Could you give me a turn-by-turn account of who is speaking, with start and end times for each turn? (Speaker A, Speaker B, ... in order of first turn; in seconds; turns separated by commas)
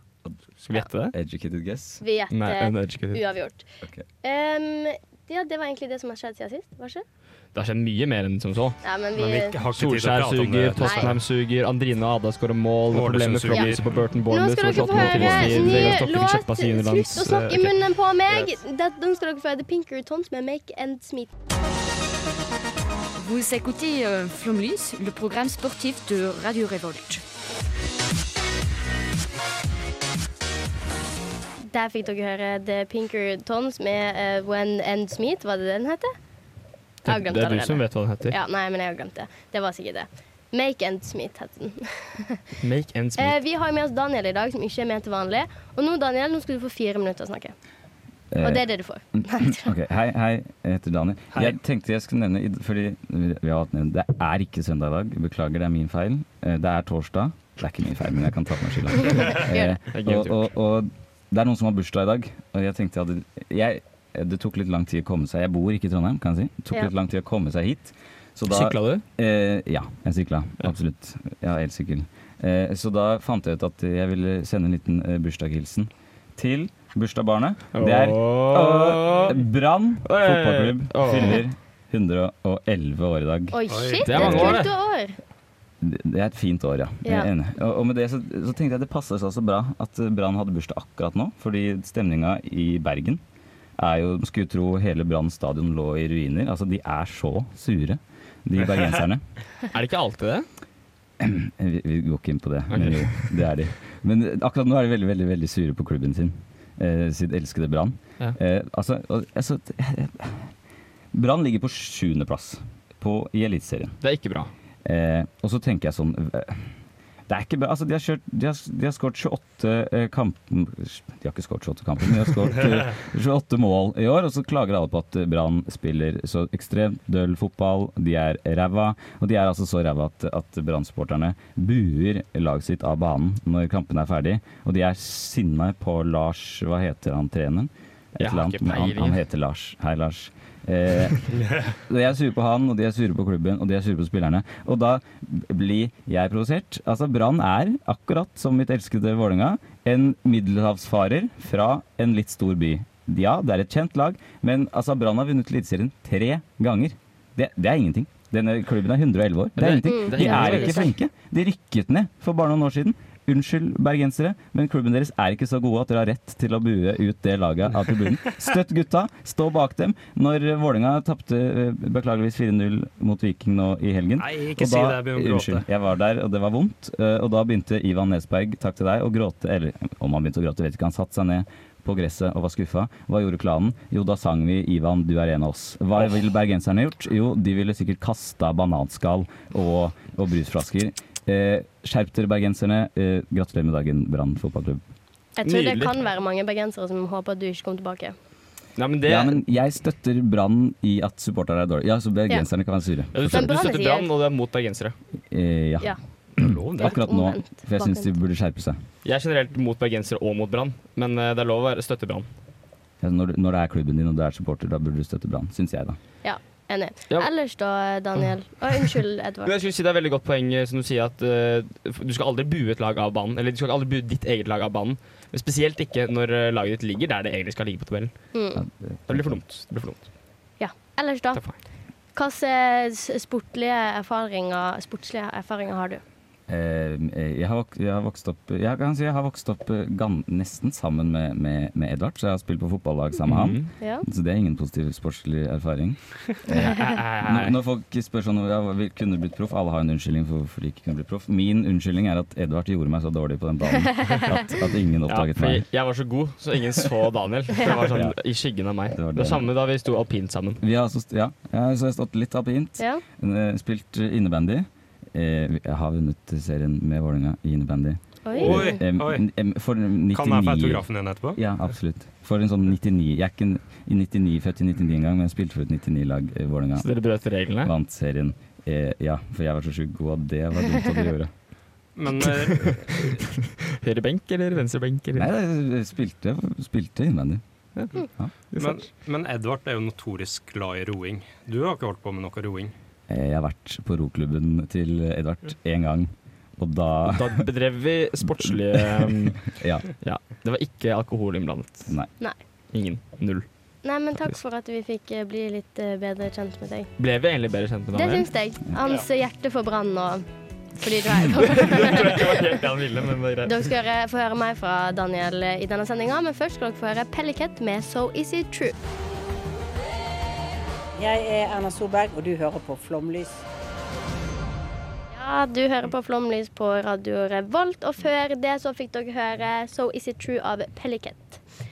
Speaker A: 0.7-1.1, Speaker B: 1.1-2.0, Speaker C: 2.0-3.7, Speaker A: 2.3-3.2, Speaker C: 4.2-7.0, Speaker A: 7.5-8.8, Speaker C: 8.8-9.6, Speaker D: 9.2-11.1, Speaker A: 9.7-17.8, Speaker C: 10.8-11.1, Speaker D: 12.9-14.0, Speaker C: 13.5-13.8, Speaker C: 14.3-21.3, Speaker B: 14.8-16.0, Speaker E: 23.2-27.2, Speaker C: 31.7-36.1, Speaker A: 37.0-38.4, Speaker C: 37.0-42.4, Speaker A: 42.6-43.4, Speaker C: 43.2-47.5, Speaker B: 48.3-83.6, Speaker C: 48.4-49.7, Speaker C: 59.1-59.8, Speaker A: 59.9-60.5, Speaker A: 68.5-69.0, Speaker A: 77.7-79.4, Speaker A: 80.1-81.4, Speaker C: 83.5-85.2, Speaker D: 83.7-84.5, Speaker A: 84.0-84.7, Speaker B: 84.1-84.6, Speaker B: 85.8-93.2, Speaker B: 93.8-99.2, Speaker A: 99.7-100.5, Speaker B: 101.2-110.5, Speaker A: 102.7-103.3, Speaker B: 111.1-114.0, Speaker A: 114.0-114.5, Speaker B: 114.8-116.7, Speaker B: 117.3-194.8, Speaker A: 138.2-139.2, Speaker A: 159.6-160.9, Speaker C: 159.8-160.9, Speaker D: 174.2-175.7, Speaker C: 195.4-198.2, Speaker A: 195.4-195.9, Speaker A: 198.8-199.4, Speaker B: 199.1-203.4, Speaker A: 203.1-204.9, Speaker C: 203.2-204.1, Speaker B: 205.3-208.8, Speaker D: 206.4-207.0, Speaker C: 206.8-208.1, Speaker A: 209.1-212.3, Speaker B: 213.0-216.0, Speaker C: 216.2-219.5, Speaker A: 219.4-228.1, Speaker C: 228.3-228.6, Speaker B: 228.6-229.4, Speaker A: 229.1-230.1, Speaker C: 230.6-231.4, Speaker C: 232.2-236.0, Speaker B: 236.5-255.7, Speaker A: 243.3-243.7, Speaker C: 243.8-244.1, Speaker A: 246.6-247.6, Speaker A: 255.1-260.6, Speaker B: 258.9-259.5, Speaker B: 260.6-276.9, Speaker C: 268.3-268.8, Speaker D: 268.4-269.2, Speaker D: 270.1-271.4, Speaker A: 276.8-277.7, Speaker B: 277.6-281.3, Speaker D: 282.0-283.2, Speaker A: 282.6-285.3, Speaker B: 285.2-287.4, Speaker A: 288.5-288.9, Speaker D: 288.6-292.7, Speaker B: 293.1-297.4, Speaker A: 297.1-301.9, Speaker B: 298.2-299.9, Speaker A: 302.7-303.5, Speaker C: 303.8-306.9, Speaker A: 307.0-308.3, Speaker C: 307.9-310.3, Speaker C: 310.8-312.5, Speaker A: 311.4-313.6, Speaker C: 313.5-318.8, Speaker F: 321.0-323.4, Speaker C: 325.1-331.4